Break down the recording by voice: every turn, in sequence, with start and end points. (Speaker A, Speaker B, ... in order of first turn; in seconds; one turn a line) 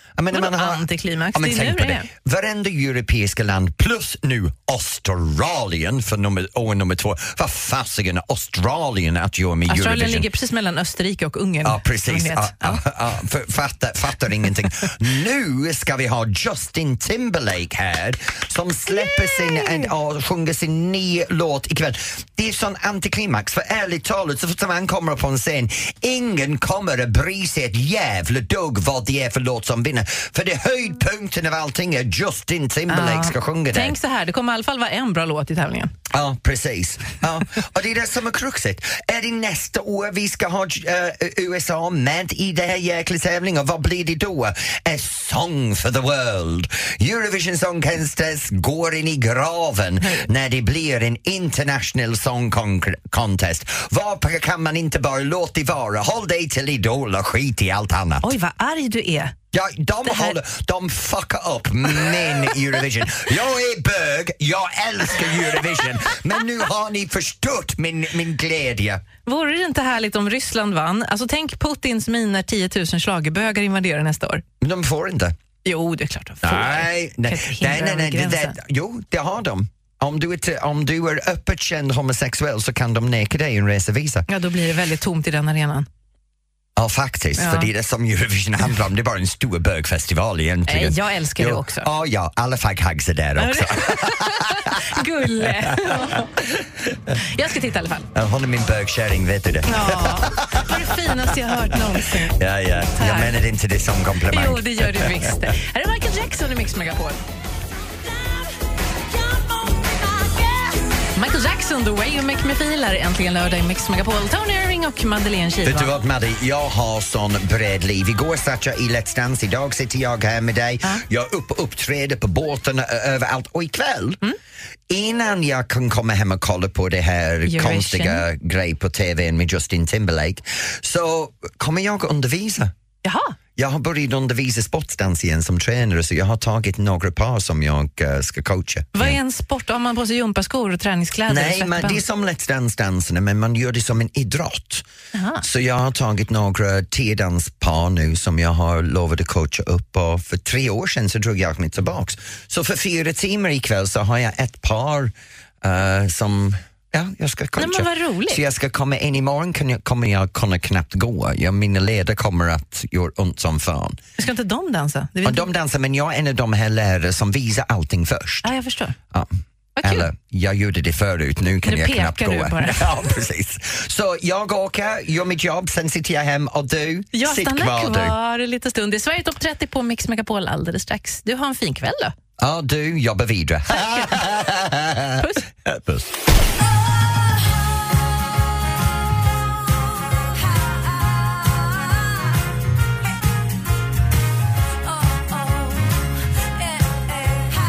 Speaker A: 0.2-10.3
Speaker B: 0.3-2.1
Speaker B: 9.7-12.8
Speaker A: 11.6-34.0
Speaker B: 32.9-35.9
Speaker A: 36.1-58.3
Speaker B: 58.2-59.4
Speaker A: 59.5-69.0
Speaker B: 60.0-60.4
Speaker B: 69.3-74.4
Speaker A: 74.6-75.3
Speaker B: 75.7-78.6
Speaker A: 76.4-84.3
Speaker B: 84.3-85.9
Speaker A: 86.8-96.3
Speaker B: 87.4-87.7
Speaker B: 90.7-91.9
Speaker B: 93.4-96.6
Speaker B: 97.1-98.1
Speaker A: 98.1-105.3
Speaker B: 99.7-102.4
Speaker B: 103.0-103.3
Speaker B: 104.3-107.2
Speaker B: 111.1-116.0
Speaker A: 115.7-124.2
Speaker A: 124.9-132.7
Speaker B: 127.5-128.2
Speaker B: 133.0-133.3
Speaker A: 133.6-139.2
Speaker B: 138.9-142.0
Speaker A: 141.3-144.8
Speaker B: 145.1-145.4
Speaker A: 145.4-164.0
Speaker B: 157.6-158.4
Speaker B: 164.2-165.5
Speaker A: 165.2-168.5
Speaker B: 168.4-169.0
Speaker B: 169.8-170.1
Speaker A: 169.8-178.2
Speaker B: 171.7-172.9
Speaker B: 177.1-182.2
Speaker A: 182.4-186.1
Speaker B: 183.7-184.2
Speaker B: 185.2-185.4